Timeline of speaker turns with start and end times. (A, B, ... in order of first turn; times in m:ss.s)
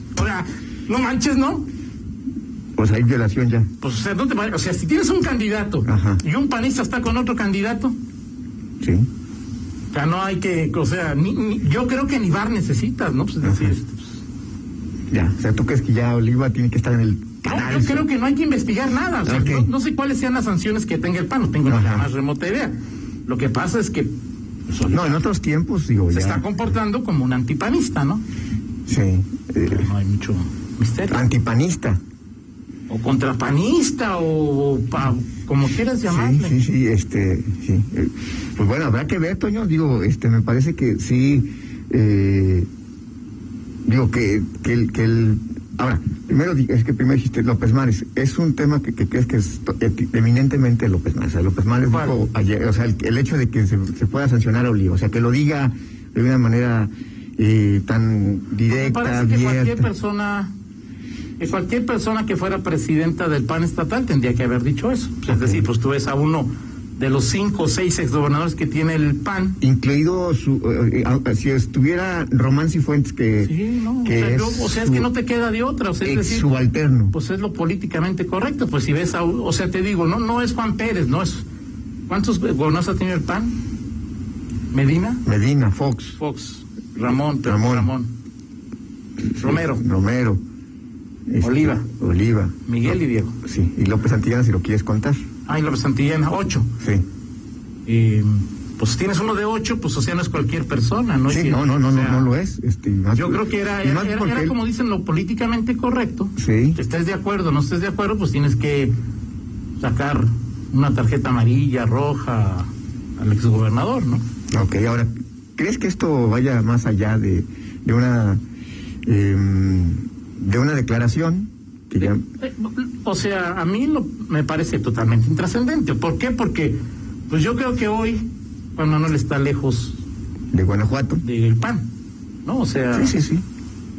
0:00.2-0:01.7 A
0:02.8-0:03.7 B
0:03.8-0:08.0 A
0:05.8-0:06.2 B
0:08.8-0:09.1 B
0:09.9-0:14.2 A
0:13.4-0:13.8 B
0:15.1-0:18.1 B
0:17.5-0:24.1 A
0:19.2-0:19.7 B
0:21.7-0:22.1 B
0:24.7-0:25.2 A
0:24.8-0:26.5 B
0:26.1-0:28.2 A
0:28.9-0:29.9 B
0:29.7-0:31.2 A
0:31.1-0:32.0 B
0:32.9-0:36.6 A
0:36.0-0:42.7 B
0:43.9-0:59.9 B
0:51.9-0:52.2 A
0:58.7-1:00.5 A
1:01.4-1:09.6 A
1:05.3-1:05.7 B
1:09.6-1:15.1 B
1:13.4-1:16.5 A
1:16.0-1:17.2 B
1:17.1-1:21.4 A
1:22.1-1:23.6 A
1:24.7-1:25.2 A
1:25.2-1:26.2 B
1:26.2-1:28.1 A
1:27.4-1:27.9 B
1:29.3-1:30.4 B
1:29.4-1:29.8 A
1:31.3-1:35.2 B
1:31.4-1:31.8 A
1:32.7-1:33.4 A
1:35.5-1:36.7 A
1:37.9-1:42.3 A
1:41.3-1:44.6 B
1:43.2-1:48.9 A
1:46.4-1:46.8 B
1:49.8-1:54.2 A
1:54.5-1:58.4 B
1:59.1-2:02.2 B
2:02.0-2:10.0 A
2:10.5-2:11.2 B
2:11.2-2:11.9 A
2:12.4-2:13.1 A
2:12.9-2:13.4 B